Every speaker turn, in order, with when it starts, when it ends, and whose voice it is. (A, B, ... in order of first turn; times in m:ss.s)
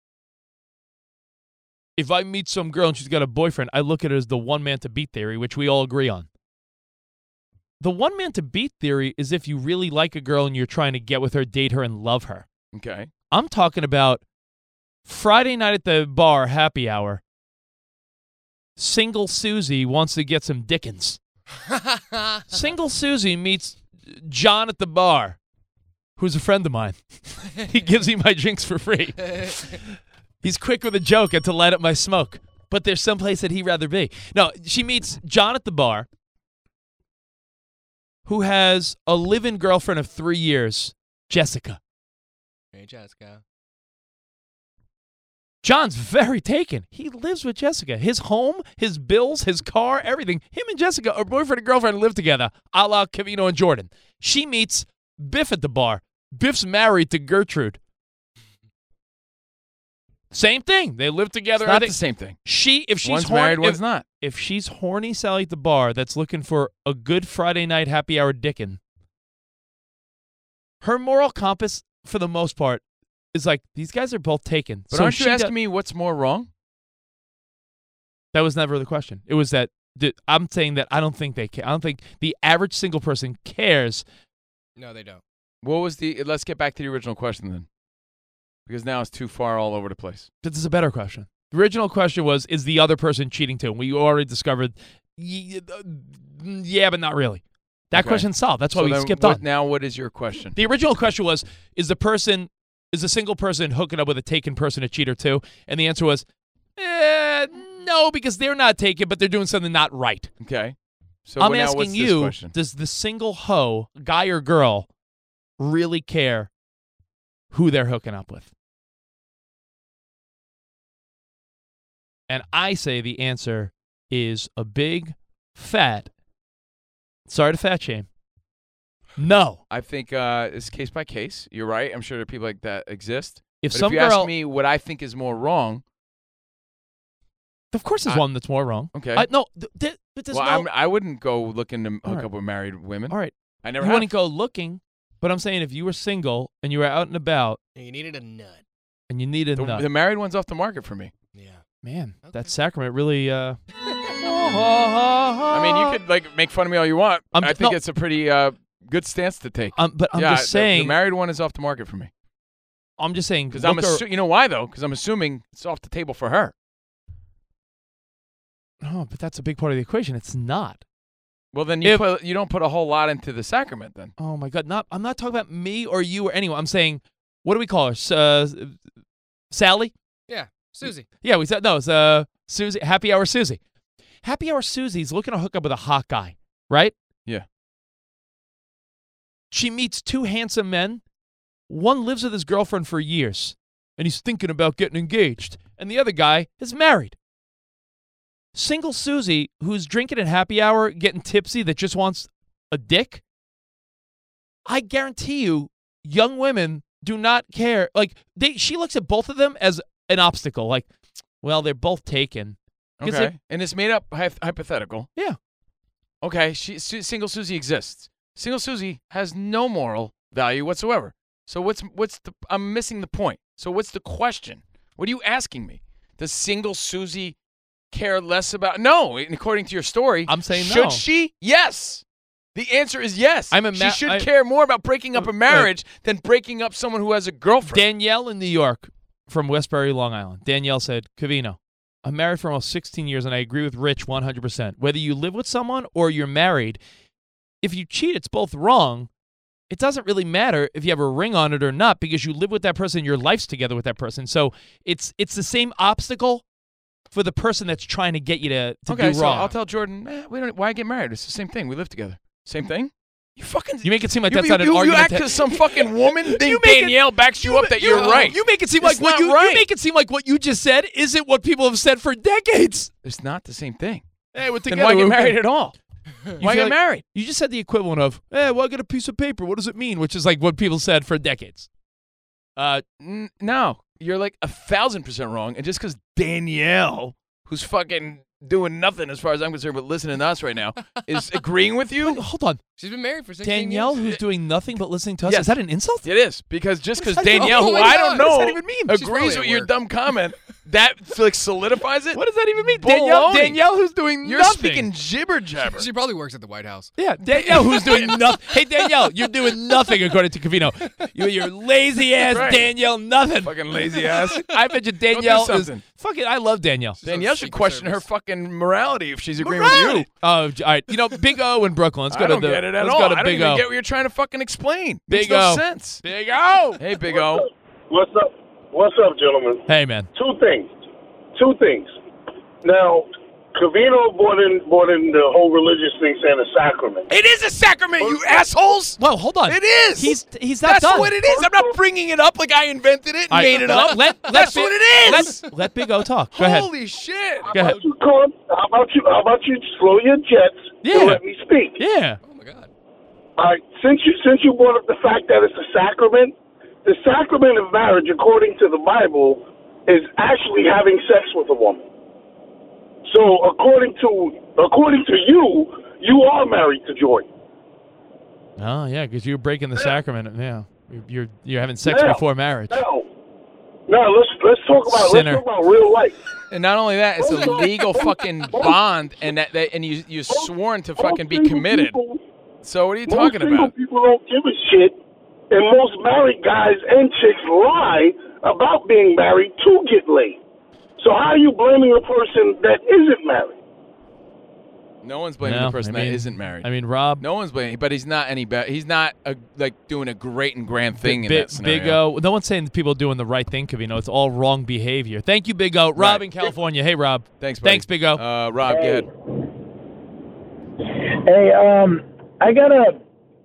0:02.0-0:06.3 A
0:07.8-0:12.4 A
0:12.7-0:13.1 B
0:13.3-0:14.2 A
0:15.0-0:17.2 A
0:18.8-0:21.2 A
0:22.5-0:25.4 A
0:26.2-0:29.8 A
0:30.4-0:36.1 A
0:38.2-0:41.8 A
0:42.7-0:43.4 C
0:45.6-0:57.8 A
1:00.3-1:08.8 A
1:01.6-1:02.4 B
1:03.0-1:04.0 B
1:10.8-1:12.8 A
1:13.3-1:15.5 A
1:14.9-1:16.5 B
1:18.3-1:24.0 A
1:24.8-1:25.2 C
1:25.6-1:27.7 B
1:28.7-1:30.3 B
1:30.4-1:39.4 A
1:37.9-1:40.6 B
1:40.5-1:46.2 A
1:46.8-1:50.3 A
1:50.4-1:50.7 B
1:51.2-1:52.5 B
1:51.4-1:54.9 A
1:55.6-1:56.5 A
1:57.5-1:58.5 A
2:02.3-2:06.1 A
2:07.3-2:08.1 A
2:09.2-2:09.6 A
2:09.7-2:15.8 B
2:13.6-2:14.3 A
2:17.7-2:20.7 A
2:18.9-2:19.3 B
2:20.3-2:24.1 B
2:23.1-2:27.6 A
2:27.8-2:28.6 C
2:29.1-2:29.8 A
2:29.6-2:31.1 B
2:31.3-2:31.6 C
2:31.8-2:33.6 A
2:32.2-2:32.5 C
2:34.2-2:36.0 A
2:35.5-2:42.1 B
2:37.3-2:37.8 A
2:39.8-2:40.9 A
2:43.0-2:44.0 A
2:43.5-2:46.5 B
2:48.8-2:50.8 A
2:51.5-2:54.1 B
2:54.2-2:58.8 A
2:59.5-2:59.9 A
3:00.3-3:01.1 C
3:01.2-3:03.6 A
3:04.2-3:06.9 A
3:09.5-3:11.0 A
3:11.7-3:17.2 A
3:18.5-3:23.2 A
3:24.6-3:30.9 A
3:31.4-3:33.3 A
3:33.0-3:35.1 B
3:36.2-3:47.3 B
3:47.9-3:52.0 B
3:50.3-3:51.0 A
3:52.5-3:57.8 B
3:53.5-3:54.3 A
3:55.2-3:55.7 A
3:57.7-4:06.8 A
4:07.6-4:09.1 A
4:09.7-4:16.4 A
4:17.1-4:19.5 A
4:18.9-4:29.6 B
4:23.8-4:32.9 A
4:33.0-4:34.0 B
4:34.3-4:35.4 A
4:34.7-4:35.7 B
4:36.4-4:37.0 B
4:36.4-4:41.7 A
4:42.6-4:42.8 A
4:43.0-4:52.2 B
4:52.0-4:52.6 A
4:52.8-4:54.2 C
4:53.4-4:56.0 A
4:55.2-4:55.5 B
4:56.0-5:02.2 B
4:57.0-4:59.7 A
4:57.4-4:57.9 C
5:02.1-5:04.9 A
5:02.8-5:03.6 B
5:04.2-5:05.9 B
5:05.7-5:06.9 C
5:06.9-5:13.6 A
5:07.4-5:08.1 B
5:07.6-5:08.2 C
5:12.3-5:12.6 B
5:13.4-5:15.8 B
5:14.3-5:17.0 A
5:17.0-5:18.0 C
5:17.0-5:20.1 B
5:19.4-5:23.6 A
5:22.1-5:26.0 B
5:25.1-5:26.8 A
5:26.8-5:27.5 B
5:27.1-5:29.6 D
5:29.7-5:30.1 A
5:30.1-5:30.7 D
5:31.3-5:31.9 D
5:32.6-5:37.1 D
5:37.1-5:45.4 B
5:38.0-5:38.4 D
5:39.0-5:41.1 A
5:41.1-5:41.8 D
5:43.3-5:46.7 A
5:45.0-5:45.3 C
5:46.3-5:47.5 B
5:47.5-5:51.8 D
5:47.5-5:47.8 A
5:50.8-5:51.2 A
5:51.8-5:52.2 A
5:52.2-5:52.7 C
5:53.4-5:56.3 D
5:56.8-6:01.8 D
6:03.0-6:07.3 D
6:08.6-6:12.8 A
6:11.8-6:13.1 D
6:13.9-6:16.2 D
6:14.9-6:15.4 A
6:16.5-6:22.0 B
6:17.2-6:18.8 D
6:20.3-6:22.2 D
6:22.6-6:23.7 B
6:23.1-6:25.0 D
6:25.5-6:30.4 D
6:31.0-6:33.6 D
6:35.0-6:42.0 B
6:35.4-6:37.2 A
6:41.0-6:48.2 A
6:46.0-6:46.5 B
6:47.4-6:49.1 B
6:48.7-6:49.1 E
6:50.8-6:53.0 E